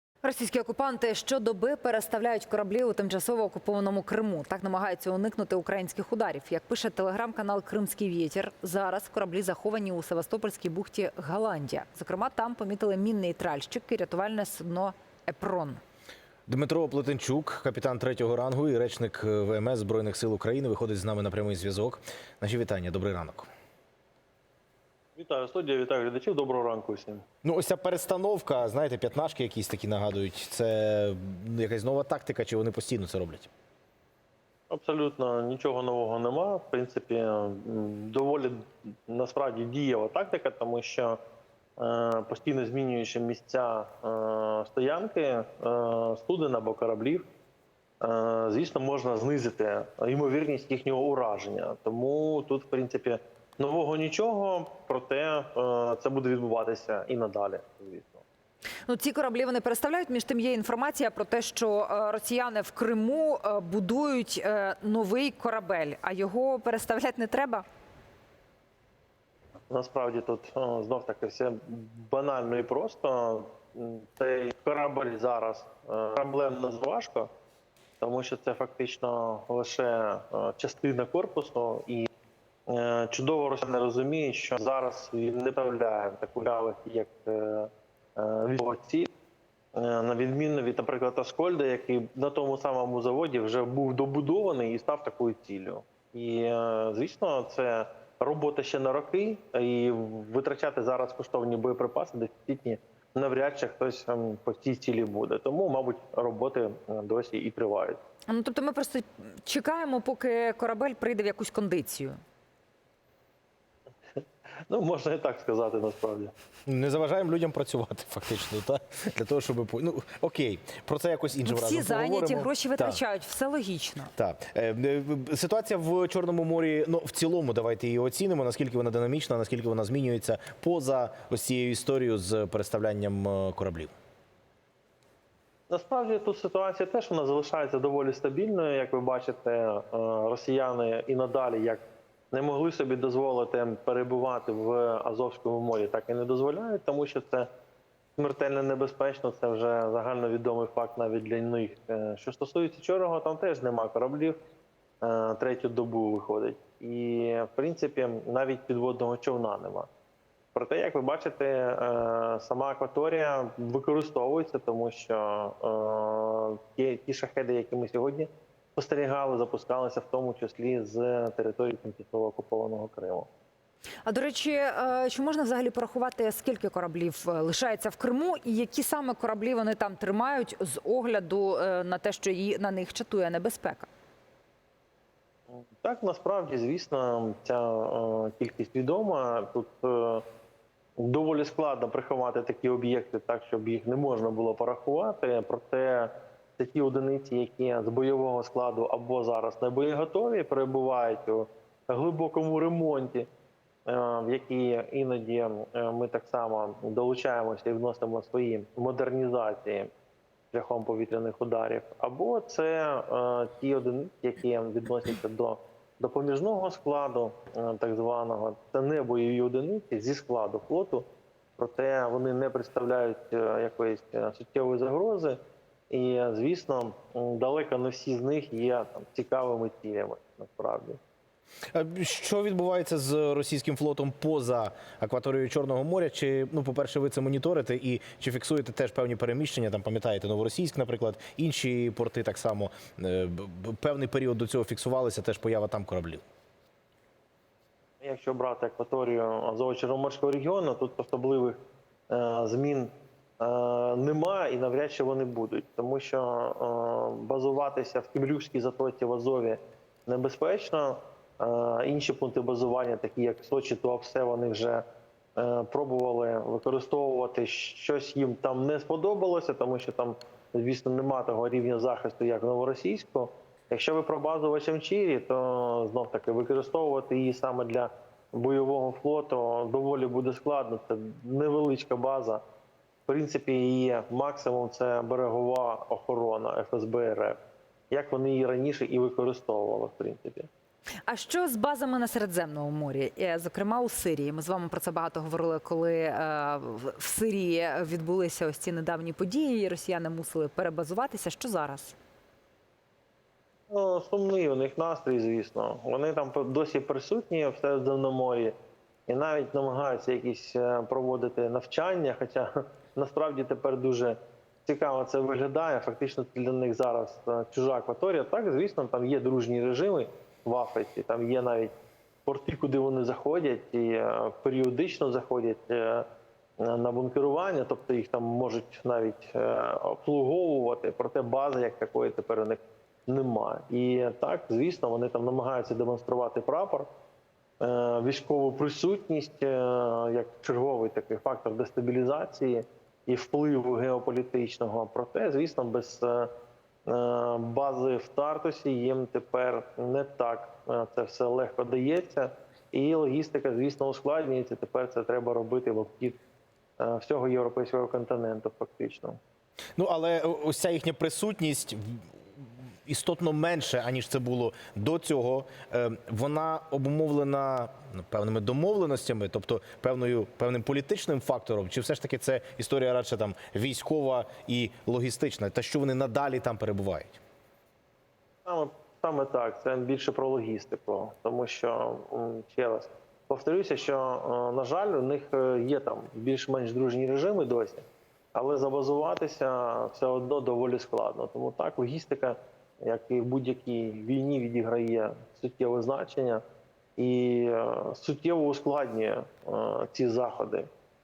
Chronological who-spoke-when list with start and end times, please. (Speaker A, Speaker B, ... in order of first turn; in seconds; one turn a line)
Speaker A: 0.2-15.8
Speaker B: 16.5-23.5
Speaker C: 25.3-27.2
Speaker B: 27.4-33.5
Speaker C: 34.7-41.2
Speaker C: 41.8-47.3
Speaker C: 48.0-58.2
Speaker A: 58.9-67.6
Speaker C: 69.7-77.3
Speaker C: 78.0-82.1
Speaker C: 82.7-89.1
Speaker C: 89.7-108.0
Speaker A: 108.3-112.2
Speaker C: 114.7-116.3
Speaker B: 116.7-123.0
Speaker A: 121.4-124.1
Speaker B: 124.2-133.9
Speaker C: 135.7-147.5
Speaker C: 148.2-154.4
Speaker C: 155.0-159.9
Speaker C: 160.5-173.3
Speaker A: 174.1-183.9
Speaker C: 185.5-190.2
Speaker C: 191.0-203.3
Speaker C: 203.8-209.9
Speaker C: 210.5-221.1
Speaker C: 221.6-225.4
Speaker C: 225.9-231.0
Speaker B: 231.7-246.2
Speaker C: 248.0-251.6
Speaker C: 252.1-264.8
Speaker C: 265.4-282.4
Speaker C: 283.1-287.4
Speaker C: 287.9-290.5
Speaker A: 291.1-301.9
Speaker C: 303.7-308.5
Speaker C: 309.1-321.7
Speaker C: 322.2-326.1
Speaker C: 326.6-336.9
Speaker C: 337.6-346.3
Speaker C: 346.9-356.2
Speaker C: 356.8-359.2
Speaker B: 359.8-362.0
Speaker B: 362.9-377.2
Speaker C: 378.5-396.4
Speaker C: 397.0-400.7